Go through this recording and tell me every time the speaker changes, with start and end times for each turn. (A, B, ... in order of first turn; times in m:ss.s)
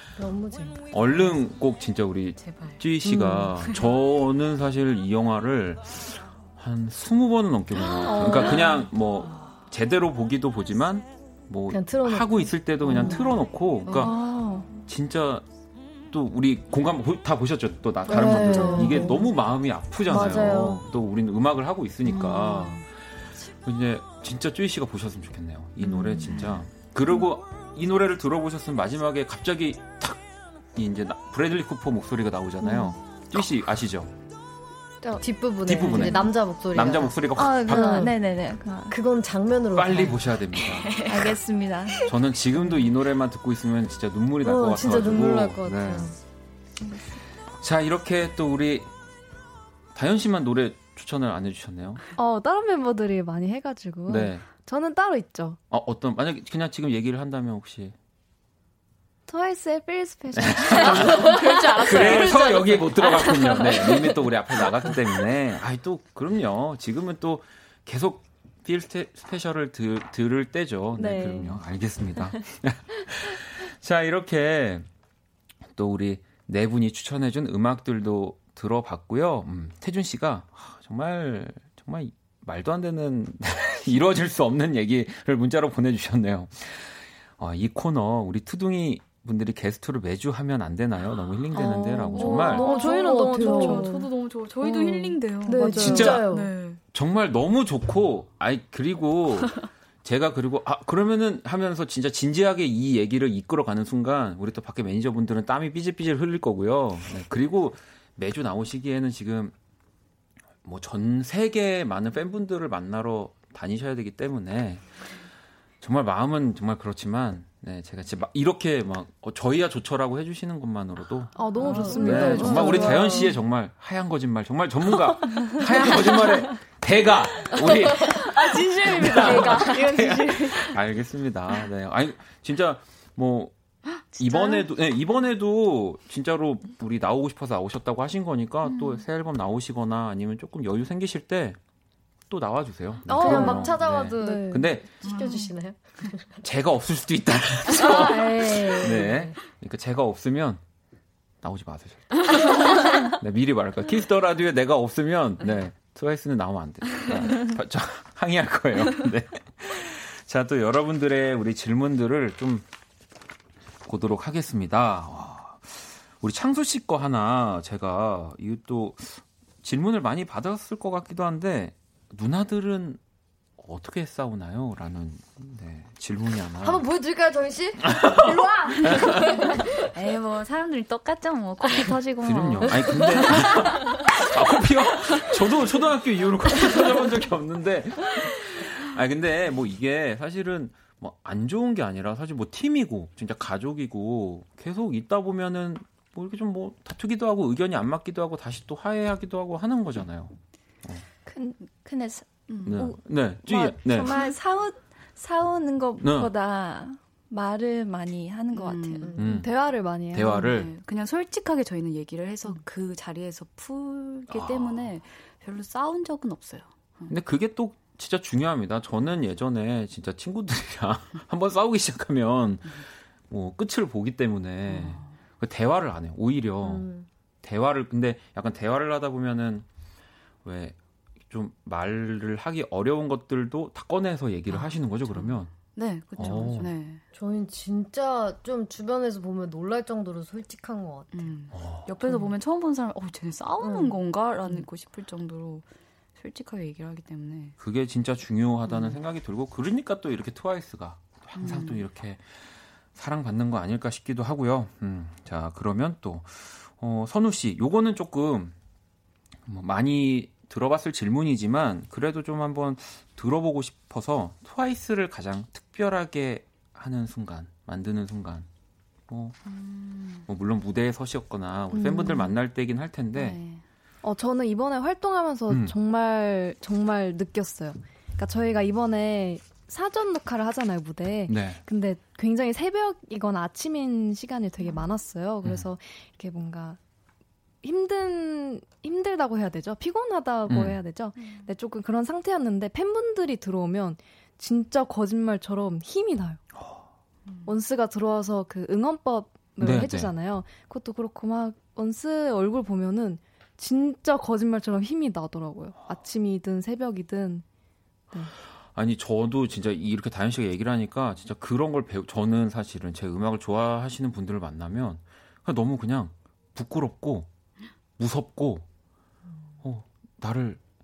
0:00.2-0:01.0 A
0:00.9-0:14.2 B
0:02.5-0:02.8 C
0:08.2-0:08.4 D
0:08.2-0:08.5 E
0:11.7-0:13.2 A
0:13.9-0:14.7 D
0:14.9-0:15.4 B
0:16.1-0:22.8 B
0:18.1-0:19.3 A
0:18.4-0:18.7 D
0:20.1-0:20.8 A
0:22.4-0:22.8 C
0:23.6-0:30.2 B
0:26.2-0:26.6 C
0:30.7-0:34.1 B
0:35.2-0:38.2 A
0:35.7-0:38.1 B
0:35.9-0:36.3 D
0:37.3-0:39.0 D
0:38.9-0:40.2 A
0:39.8-0:41.0 B
0:40.7-0:41.0 C
0:41.0-0:42.1 D
0:42.1-0:46.1 B
0:44.4-0:46.2 A
0:47.6-0:48.9 B
0:50.0-0:52.0 B
0:52.2-0:55.6 E
0:54.1-0:54.5 B
0:55.7-0:58.0 B
0:59.3-1:03.8 D
0:59.3-1:02.2 E
1:00.3-1:14.9 B
1:00.7-1:02.6 C
1:11.0-1:11.5 D
1:15.8-1:32.7 B
1:31.6-1:34.0 E
1:32.2-1:34.1 A
1:32.2-1:36.8 C
1:34.6-1:36.5 A
1:35.6-1:36.2 E
1:35.8-1:36.3 B
1:36.9-1:49.5 B
1:50.6-1:54.9 B
1:55.8-2:13.5 B
2:01.4-2:03.3 E
2:01.7-2:02.6 A
2:01.8-2:02.9 D
2:02.2-2:03.0 C
2:08.7-2:10.2 E
2:14.2-2:21.6 B
2:18.7-2:19.0 C
2:22.3-2:24.9 B
2:23.1-2:26.3 A
2:23.1-2:24.7 E
2:25.0-2:25.5 C
2:26.4-2:30.6 B
2:27.7-2:29.4 A
2:31.4-2:42.7 B
2:43.8-2:53.0 B
2:53.6-2:56.8 B
2:56.6-2:59.6 A
2:57.8-2:59.4 B
2:59.8-3:03.7 C
3:02.2-3:21.0 B
3:21.3-3:29.2 D
3:22.5-3:22.9 C
3:22.7-3:24.2 B
3:26.0-3:26.3 B
3:28.5-3:29.1 C
3:29.2-3:29.5 B
3:29.2-3:30.6 E
3:30.1-3:30.7 B
3:30.4-3:37.1 C
3:34.3-3:34.9 B
3:37.1-3:46.9 B
3:44.7-3:45.1 C
3:46.6-3:47.1 A
3:47.4-3:49.7 B
3:50.4-3:50.8 B
3:51.3-3:55.5 B
3:54.5-3:57.0 C
3:56.2-3:56.7 B
3:57.1-4:01.3 A
4:01.1-4:05.6 C
4:01.5-4:02.1 B
4:03.6-4:04.0 A
4:06.2-4:07.6 C
4:07.6-4:12.2 B
4:08.7-4:09.0 C
4:11.4-4:11.8 C
4:12.9-4:18.6 B
4:19.5-4:28.5 B
4:29.1-4:29.4 B
4:29.5-4:30.2 C
4:30.3-4:33.4 B
4:31.7-4:32.3 E
4:33.2-4:33.6 C
4:34.0-4:46.8 E
4:35.5-4:35.8 B
4:41.3-4:41.6 B
4:47.6-4:56.4 E
4:50.5-4:50.8 B
4:56.6-4:56.8 B
4:57.5-5:07.4 E
4:59.6-5:00.1 B
5:08.8-5:17.3 B
5:18.0-5:18.6 B
5:19.6-5:20.6 B